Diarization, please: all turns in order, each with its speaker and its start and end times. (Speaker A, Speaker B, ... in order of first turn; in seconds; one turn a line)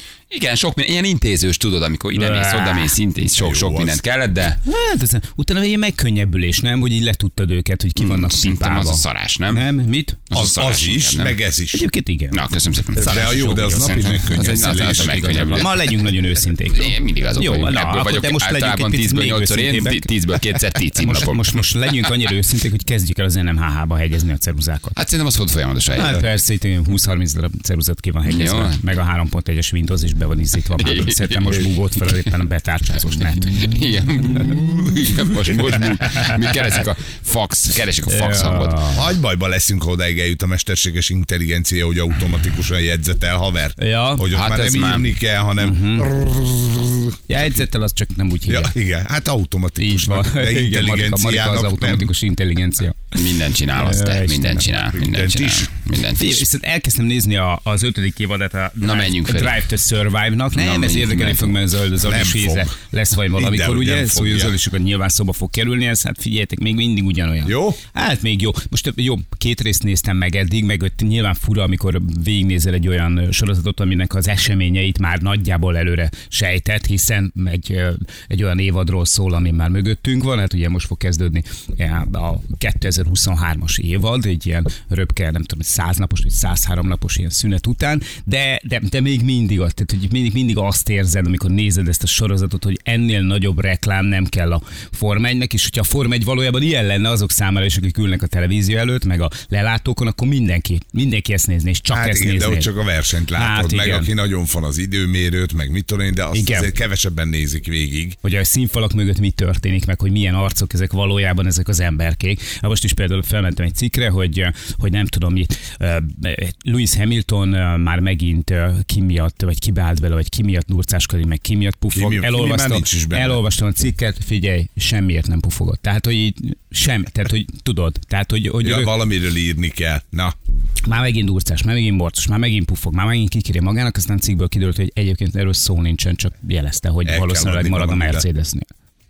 Speaker A: 0.3-4.6
Speaker B: 2.1-3.0
Speaker C: 3.3-4.0
Speaker B: 4.6-10.2
Speaker A: 8.0-9.6
Speaker A: 10.3-11.4
Speaker C: 10.3-11.8
Speaker B: 11.7-12.4
Speaker A: 12.3-15.7
Speaker C: 13.0-15.7
Speaker B: 13.0-14.2
Speaker B: 15.5-20.1
Speaker A: 16.7-21.6
Speaker B: 21.0-25.0
Speaker A: 25.0-26.3
Speaker B: 25.9-33.8
Speaker A: 28.3-28.8
Speaker A: 30.8-31.7
Speaker A: 33.4-38.9
Speaker B: 36.1-36.4
Speaker B: 38.1-39.0
Speaker C: 38.9-47.2
Speaker B: 43.8-44.3
Speaker A: 44.3-45.2
Speaker B: 45.6-46.1
Speaker B: 47.3-48.7
Speaker C: 48.5-52.1
Speaker B: 49.8-53.2
Speaker A: 53.1-56.5
Speaker B: 53.8-54.7
Speaker C: 55.0-55.7
Speaker B: 56.2-102.7
Speaker A: 58.8-59.6
Speaker A: 60.5-61.6
Speaker C: 62.0-62.8
Speaker C: 63.3-64.5
Speaker C: 67.5-67.8
Speaker C: 101.9-108.2
Speaker B: 103.3-104.1
Speaker B: 106.3-106.7
Speaker B: 108.2-128.9
Speaker C: 121.9-123.4
Speaker C: 128.6-130.4
Speaker B: 130.9-138.7
Speaker C: 137.1-138.3